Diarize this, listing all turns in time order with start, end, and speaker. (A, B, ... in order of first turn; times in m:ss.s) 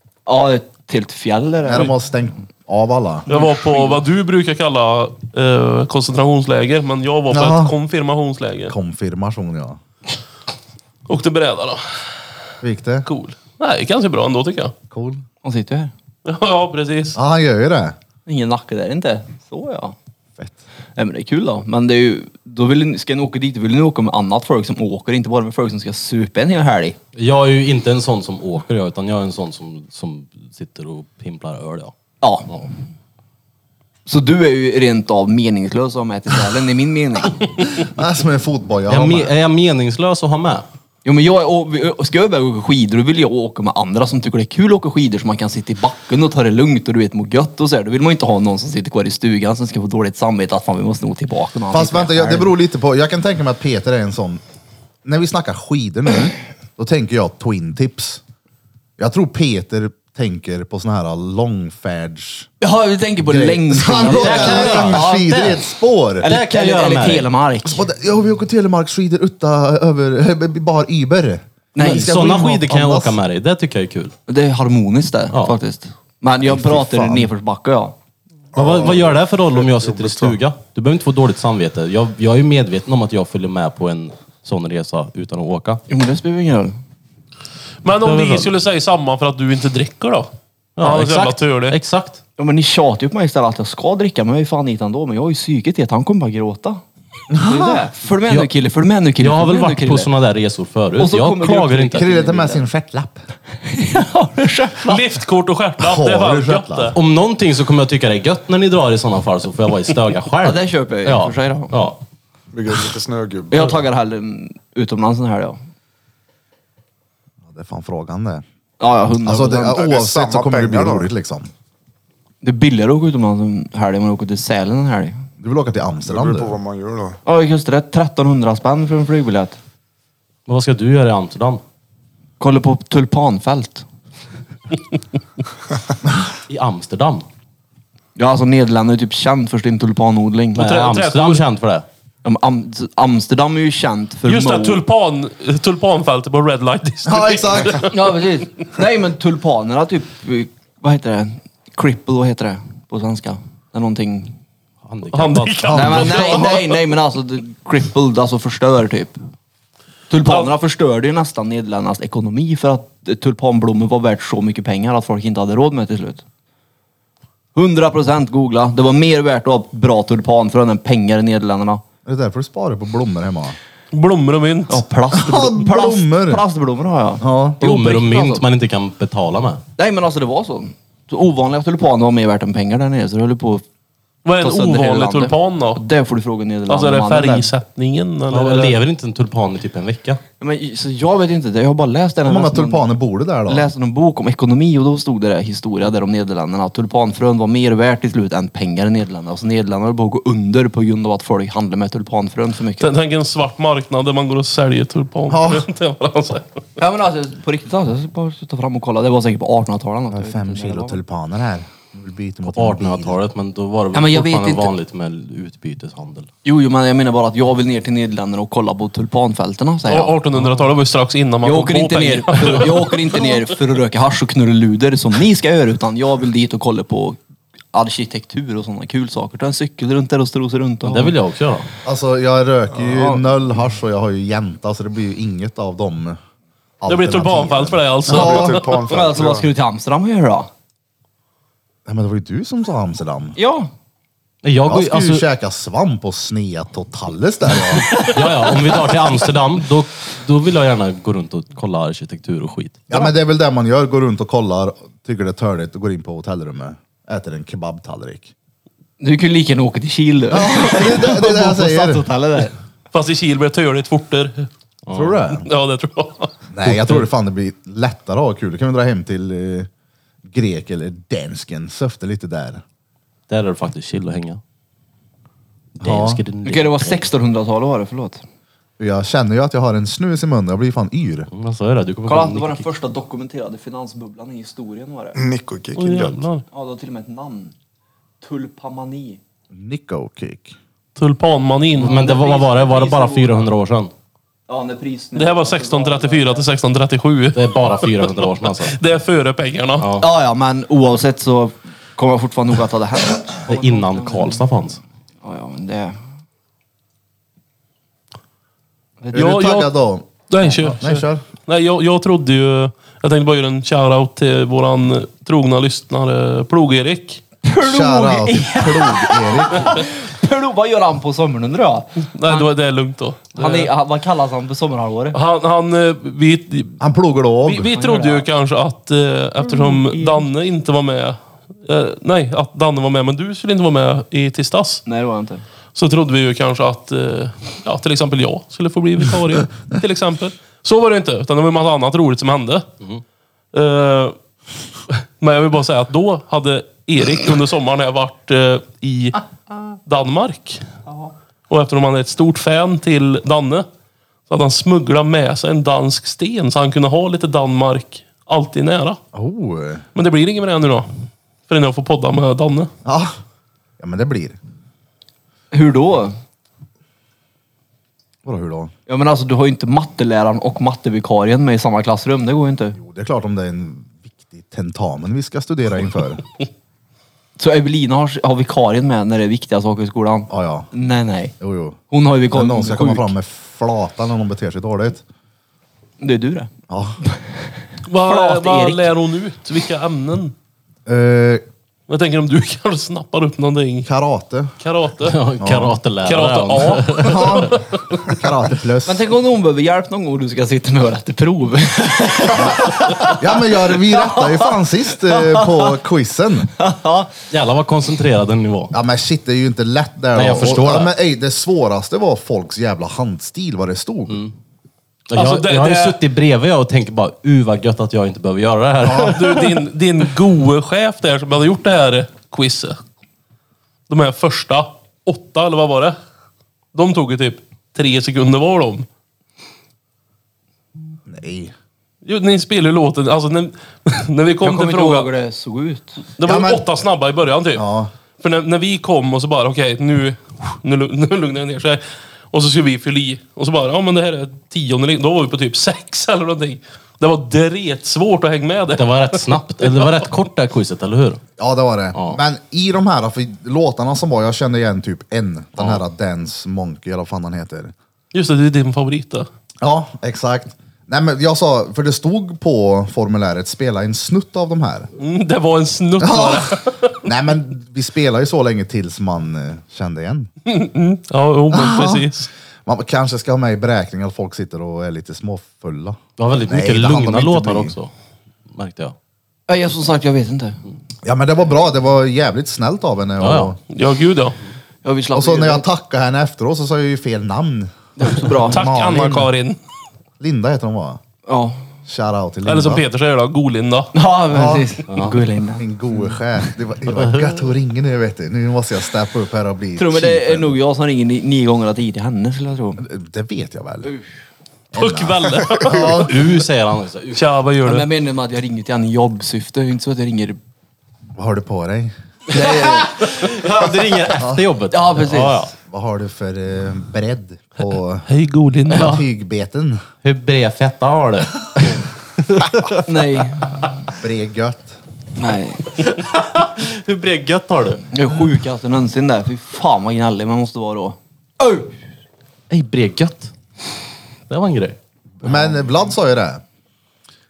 0:00.2-0:01.9 A
0:01.6-0:03.3 B
0:03.3-0:04.0 A
0:03.3-0:08.7 C
0:07.3-0:07.7 B
0:08.7-0:09.8 B
0:11.1-0:11.8 C
0:12.6-0:13.1 B
0:13.0-0:14.7 C
0:14.9-0:15.2 B
0:15.4-0:15.9 A
0:16.2-0:17.2 C
0:17.1-0:18.0 B
0:18.2-0:19.9 A
0:21.0-0:27.0 A
0:27.2-0:31.9 D
0:32.2-0:32.5 A
0:34.0-0:37.4 A
0:37.8-0:39.3 B
0:38.9-0:40.6 D
0:41.0-0:52.5 A
0:51.7-0:54.4 B
0:55.0-0:58.2 B
0:59.0-1:02.5 B
1:02.6-1:05.5 A
1:03.3-1:06.3 B
1:04.0-1:05.6 D
1:06.2-1:07.8 A
1:06.2-1:07.3 D
1:07.6-1:13.2 B
1:11.7-1:12.3 A
1:11.8-1:14.1 D
1:14.3-1:17.9 A
1:16.4-1:17.3 B
1:18.5-1:20.4 E
1:18.5-1:25.8 D
1:25.9-1:26.8 A
1:27.8-1:31.8 C
1:28.0-1:28.5 D
1:30.8-1:32.2 D
1:32.4-1:36.8 A
1:37.3-1:37.8 B
1:37.3-1:40.1 A
1:39.2-1:42.1 D
1:41.0-1:42.6 A
1:41.9-1:43.2 B
1:43.6-1:45.0 A
1:44.8-1:46.9 C
1:45.8-1:47.0 B
1:46.9-1:52.0 D
1:50.4-1:51.8 A
1:52.5-1:53.8 E
1:53.5-1:55.6 A
1:57.4-1:58.4 B
1:58.8-1:59.8 A
1:59.2-2:01.5 B
1:59.5-2:01.1 E
2:02.4-2:05.2 A
2:05.4-2:06.6 B
2:06.1-2:07.2 E
2:07.2-2:09.6 A
2:10.5-2:11.6 D
2:12.4-2:13.8 A
2:16.5-2:17.2 D
2:18.2-2:20.7 A
2:20.5-2:21.8 D
2:20.6-2:21.4 C
2:22.2-2:24.8 A
2:24.2-2:28.0 C
2:27.0-2:27.9 B
2:27.9-2:34.4 A
2:34.8-2:36.1 D
2:35.1-2:36.8 C
2:35.6-2:36.4 B
2:35.7-2:39.2 A
2:40.1-2:46.2 A
2:47.5-2:51.8 A
2:52.0-2:53.6 B
2:53.9-2:54.8 C
2:54.7-2:58.4 A
2:55.1-2:56.4 B
2:57.2-2:57.6 B
2:57.6-2:59.6 D
2:59.8-3:03.6 A
3:04.2-3:05.8 C
3:04.4-3:07.5 A
3:06.7-3:08.8 C
3:08.3-3:10.2 D
3:10.4-3:12.8 A
3:12.2-3:13.7 B
3:13.5-3:22.9 A
3:22.8-3:26.5 C
3:25.3-3:25.7 B
3:26.8-3:31.0 A
3:30.1-3:33.2 B
3:32.4-3:36.3 D
3:33.9-3:34.7 A
3:36.4-3:40.2 A
3:39.8-3:43.4 C
3:41.4-3:47.2 A
3:47.7-3:51.2 A
3:50.8-3:51.7 D
3:51.8-3:56.2 B
3:52.8-3:53.2 A
3:56.8-3:58.6 B
3:56.9-3:58.8 C
3:58.0-3:59.4 E
3:58.9-4:00.5 A
4:01.8-4:03.4 B
4:03.4-4:03.7 A
4:04.4-4:05.2 D
4:04.7-4:08.1 B
4:07.9-4:12.8 D
4:12.9-4:18.3 B
4:19.0-4:22.5 A
4:20.3-4:22.0 B
4:22.9-4:24.5 C
4:24.8-4:25.2 D
4:24.9-4:25.5 B
4:25.4-4:26.3 C
4:26.5-4:29.7 B
4:30.2-4:32.6 B
4:33.3-4:34.4 D
4:35.8-4:37.0 D
4:35.8-4:36.2 B
4:36.4-4:38.2 A
4:38.8-4:41.3 B
4:41.3-4:42.7 D
4:42.0-4:45.2 A
4:45.1-4:46.2 E
4:45.8-4:46.4 C
4:46.5-4:47.5 A
4:48.2-4:49.2 A
4:49.5-4:50.6 B
4:51.0-4:52.0 C
4:51.8-4:53.9 D
4:51.8-4:53.5 A
4:54.5-4:56.4 A
4:55.2-4:59.9 C
4:57.3-4:58.8 D
4:59.8-5:00.1 D
5:00.0-5:04.4 A
5:03.4-5:04.8 D
5:05.2-5:06.0 A
5:09.1-5:11.2 B
5:09.1-5:09.7 C
5:10.3-5:17.2 C
5:17.4-5:22.5 A
5:17.6-5:19.8 B
5:22.1-5:23.7 C
5:23.3-5:25.2 A
5:25.1-5:26.8 C
5:26.8-5:27.7 B
5:27.4-5:34.8 C
5:27.7-5:28.3 A
5:29.4-5:30.3 A
5:34.8-5:35.4 A
5:35.7-5:42.7 C
5:43.5-5:44.2 C
5:44.9-5:49.2 C
5:49.8-5:50.6 C
5:51.5-5:53.6 C
5:54.3-5:59.0 C
5:59.1-5:59.8 B
5:59.9-6:00.9 C
6:01.5-6:02.7 C
6:02.8-6:03.2 B
6:03.8-6:04.4 B
6:05.5-6:06.2 A
6:08.2-6:08.7 B
6:08.9-6:12.8 A
6:12.8-6:16.2 B
6:17.4-6:21.3 A
6:20.3-6:20.7 B
6:21.4-6:25.0 B
6:21.9-6:23.1 A
6:26.0-6:26.5 A
6:26.7-6:27.0 B
6:27.9-6:30.3 C
6:27.9-6:28.9 A
6:30.8-6:31.4 B
6:31.9-6:33.9 C
6:33.8-6:34.5 B
6:34.6-6:35.2 C
6:35.0-6:37.5 D
6:35.4-6:35.8 B
6:36.0-6:38.2 C
6:37.0-6:37.6 B
6:38.1-6:39.0 B
6:38.8-6:45.8 A
6:43.1-6:46.5 B
6:46.6-6:47.1 A
6:47.3-6:48.7 D
6:48.7-6:54.2 B
6:50.1-6:50.9 D
6:55.1-6:59.5 D
6:55.1-6:56.0 C
6:58.8-6:59.2 B
6:59.1-7:02.8 C
7:03.9-7:06.0 C
7:06.7-7:08.8 C
7:11.1-7:11.5 B
7:12.0-7:15.1 C
7:14.4-7:16.0 A
7:16.2-7:17.6 C
7:16.2-7:16.6 B
7:17.5-7:17.9 B
7:18.2-7:29.9 C
7:28.7-7:31.2 D
7:31.4-7:37.7 B
7:38.1-7:39.3 C
7:39.6-7:44.9 B
7:45.0-7:47.0 C
7:46.0-7:46.5 B
7:47.0-7:50.3 B
7:50.4-7:52.3 C
7:51.5-7:52.1 B
7:52.6-7:57.7 B
7:56.2-7:57.9 D
7:58.5-7:58.9 D
7:59.5-8:00.6 A
8:01.0-8:03.6 B
8:03.2-8:03.6 D
8:03.7-8:04.4 C
8:04.8-8:05.7 A
8:05.1-8:07.7 B
8:08.0-8:08.7 A
8:08.2-8:09.3 B
8:08.5-8:09.6 C
8:10.2-8:11.0 B
8:11.3-8:11.6 A
8:11.9-8:12.8 B
8:12.4-8:13.9 C
8:13.9-8:15.7 A
8:14.3-8:14.7 B
8:14.9-8:15.2 D
8:15.6-8:20.6 B
8:19.8-8:22.8 A
8:22.8-8:23.9 B
8:24.7-8:26.2 B
8:24.7-8:26.1 C
8:25.8-8:27.2 D
8:27.1-8:27.8 C
8:27.6-8:30.4 A
8:31.2-8:31.9 B
8:32.3-8:33.0 A
8:32.5-8:35.5 D
8:34.7-8:35.5 A
8:35.6-8:38.1 B
8:38.1-8:39.0 C
8:38.7-8:39.0 D
8:38.7-8:39.8 B
8:40.0-8:42.8 D
8:42.8-8:43.6 A
8:43.9-8:44.8 B
8:45.2-8:45.6 A
8:45.8-8:47.8 D
8:47.9-8:51.7 A
8:52.5-8:53.3 D
8:54.3-8:55.5 D
8:55.2-8:56.4 B